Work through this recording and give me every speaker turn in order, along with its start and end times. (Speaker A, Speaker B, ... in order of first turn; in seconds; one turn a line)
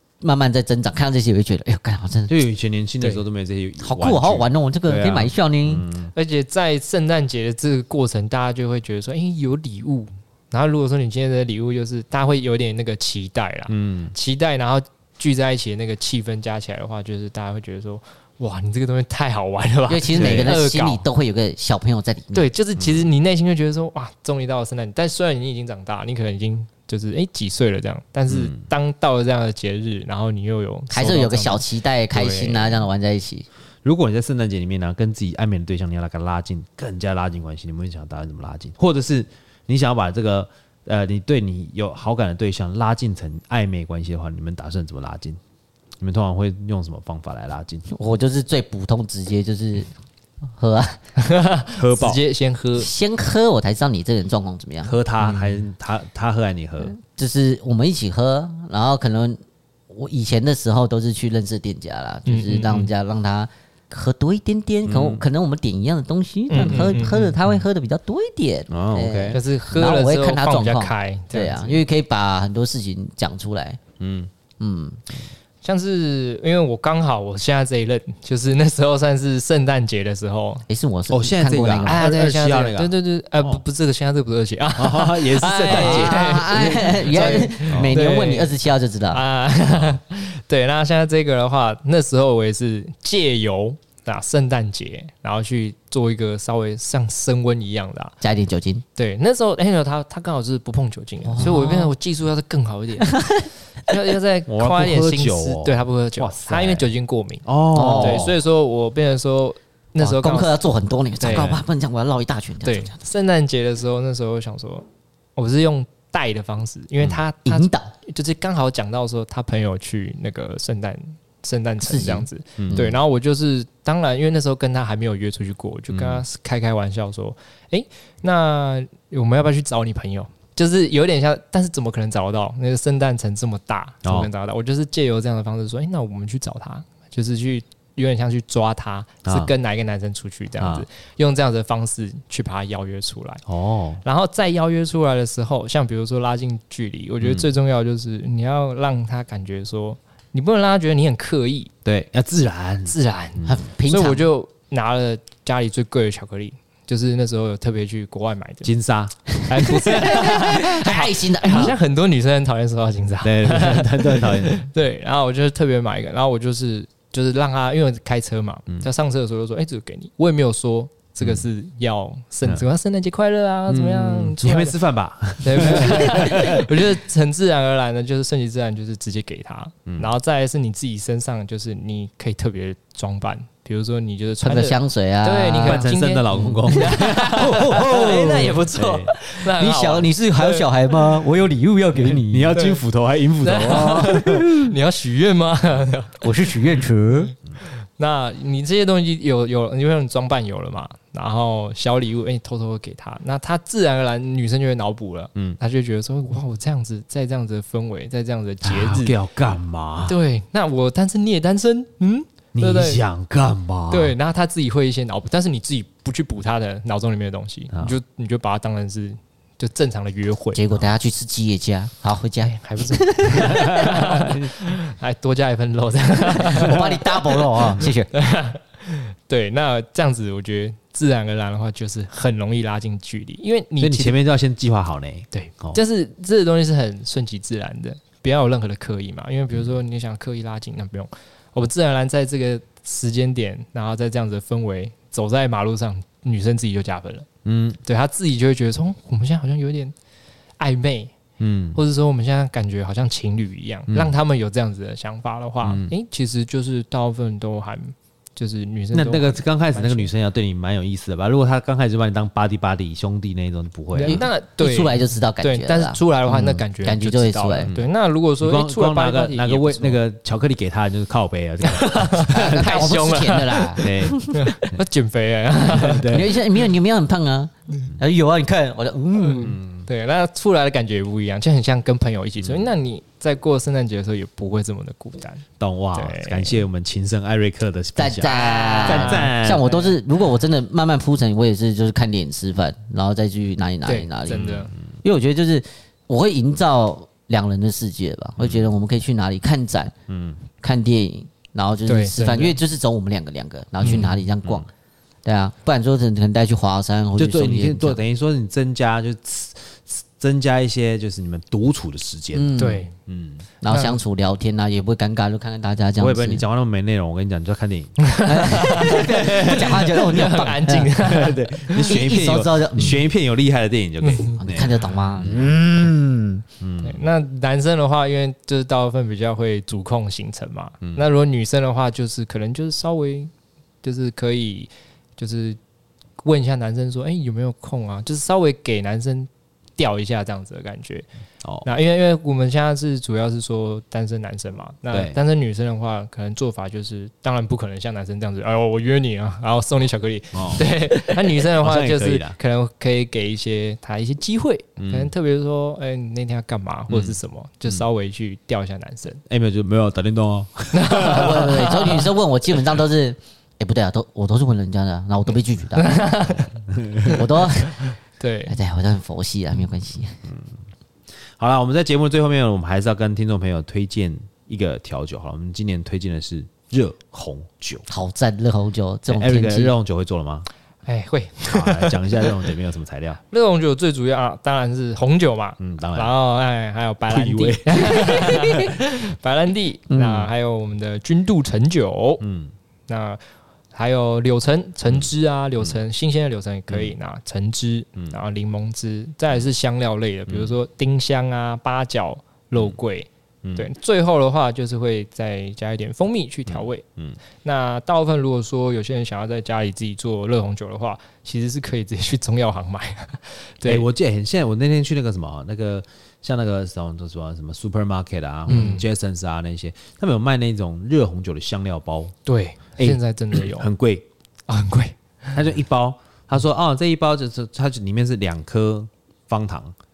Speaker A: 0.2-2.3
Speaker B: 2.3-6.1
Speaker A: 3.8-5.8
Speaker C: 6.1-21.1
Speaker B: 13.7-14.1
Speaker A: 19.9-22.5
Speaker B: 20.2-20.6
Speaker C: 22.3-32.8
Speaker B: 22.8-23.1
Speaker B: 28.3-28.6
Speaker A: 30.9-33.5
Speaker B: 33.8-45.4
Speaker B: 46.0-47.9
Speaker A: 47.9-49.9
Speaker A: 50.6-51.0
Speaker C: 51.2-52.9
Speaker B: 51.8-52.2
Speaker A: 52.8-55.0
Speaker B: 54.8-57.0
Speaker C: 55.2-55.6
Speaker A: 56.8-73.8
Speaker C: 62.3-62.9
Speaker B: 64.8-65.2
Speaker C: 66.5-67.3
Speaker B: 66.5-67.0
Speaker B: 68.7-69.4
Speaker C: 69.3-71.8
Speaker B: 74.0-74.3
Speaker A: 74.6-75.0
Speaker C: 75.6-80.7
Speaker A: 80.7-82.0
Speaker B: 81.1-83.6
Speaker C: 81.8-88.5
Speaker B: 84.8-88.0
Speaker A: 85.4-89.2
Speaker C: 89.1-98.2
Speaker A: 98.2-98.8
Speaker C: 99.0-103.2
Speaker A: 101.2-102.0
Speaker A: 103.0-103.5
Speaker C: 103.9-107.5
Speaker B: 104.5-106.9
Speaker B: 107.5-108.3
Speaker A: 107.7-108.3
Speaker C: 108.0-110.5
Speaker A: 110.0-113.0
Speaker C: 111.2-111.6
Speaker C: 112.6-114.8
Speaker C: 115.4-143.4
Speaker A: 117.5-117.9
Speaker A: 121.8-123.0
Speaker B: 122.6-122.9
Speaker B: 125.9-126.2
Speaker B: 134.0-134.3
Speaker B: 139.2-139.5
Speaker B: 140.6-140.9
Speaker B: 143.5-144.0
Speaker C: 144.0-151.7
Speaker B: 147.2-147.5
Speaker B: 151.8-153.6
Speaker C: 152.9-158.7
Speaker A: 153.5-154.3
Speaker B: 158.6-159.2
Speaker C: 159.5-174.8
Speaker A: 159.7-161.8
Speaker B: 163.2-164.7
Speaker B: 173.7-176.8
Speaker C: 175.4-191.2
Speaker A: 184.4-188.7
Speaker B: 185.6-189.1
Speaker A: 189.3-192.6
Speaker B: 192.2-194.3
Speaker C: 192.5-192.8
Speaker C: 193.4-196.6
Speaker A: 193.7-194.7
Speaker A: 196.2-197.3
Speaker C: 197.6-209.1
Speaker B: 208.6-210.2
Speaker C: 210.1-213.0
Speaker B: 212.6-214.2
Speaker C: 213.9-220.6
Speaker A: 220.6-224.2
Speaker C: 222.4-234.2
Speaker B: 223.4-224.5
Speaker A: 226.5-228.1
Speaker B: 233.8-235.8
Speaker C: 235.3-247.3
Speaker B: 247.4-247.8
Speaker C: 247.8-249.9
Speaker C: 250.6-251.2
Speaker B: 251.4-251.8
Speaker C: 251.8-260.1
Speaker B: 253.9-254.2
Speaker B: 255.6-255.9
Speaker B: 258.9-264.2
Speaker C: 263.9-270.0
Speaker A: 264.0-267.7
Speaker B: 267.7-273.0
Speaker C: 271.6-276.4
Speaker A: 272.3-274.7
Speaker B: 273.8-274.2
Speaker B: 275.7-276.4
Speaker A: 276.1-279.6
Speaker C: 279.2-285.4
Speaker B: 279.4-279.9
Speaker B: 282.4-282.7
Speaker B: 285.6-289.7
Speaker C: 285.9-286.6
Speaker A: 288.0-294.5
Speaker C: 288.2-290.0
Speaker C: 293.9-294.7
Speaker B: 294.3-294.7
Speaker A: 295.0-299.9
Speaker B: 298.4-298.7
Speaker B: 300.1-300.4
Speaker A: 300.6-304.7
Speaker C: 301.9-302.6
Speaker B: 303.8-304.7
Speaker C: 303.8-304.2
Speaker A: 305.2-308.0
Speaker B: 307.2-313.5
Speaker A: 312.3-312.9
Speaker C: 312.6-312.9
Speaker A: 313.6-316.4
Speaker C: 313.7-314.0
Speaker B: 316.0-318.1
Speaker C: 318.0-321.4
Speaker A: 318.3-320.9
Speaker B: 318.8-319.8
Speaker B: 321.0-325.6
Speaker A: 321.7-323.0
Speaker C: 324.0-324.4
Speaker A: 324.4-326.4
Speaker B: 326.6-327.0
Speaker C: 326.8-333.3
Speaker C: 333.8-335.6
Speaker C: 336.2-341.1
Speaker C: 341.6-359.2
Speaker B: 344.9-345.2
Speaker B: 350.3-352.4
Speaker B: 354.8-355.1
Speaker B: 356.9-357.2
Speaker B: 359.3-361.9
Speaker C: 360.7-362.1
Speaker A: 360.9-366.0
Speaker C: 365.8-368.6
Speaker B: 366.7-367.1
Speaker A: 367.1-367.9
Speaker A: 368.5-370.2
Speaker B: 371.4-377.9
Speaker A: 377.9-379.7
Speaker B: 379.1-380.5
Speaker C: 380.9-382.4
Speaker B: 381.4-383.2
Speaker C: 383.3-392.2
Speaker B: 385.6-386.1
Speaker B: 387.1-388.8
Speaker A: 389.9-390.3
Speaker B: 392.2-392.5
Speaker C: 392.9-393.2
Speaker C: 393.7-406.8
Speaker B: 394.9-395.8
Speaker B: 396.7-396.9
Speaker B: 400.3-400.6
Speaker B: 406.5-407.2
Speaker C: 407.4-413.9
Speaker B: 413.6-422.1
Speaker C: 418.5-418.9
Speaker C: 422.3-423.7
Speaker B: 422.8-424.1
Speaker C: 424.5-425.4
Speaker B: 425.3-429.8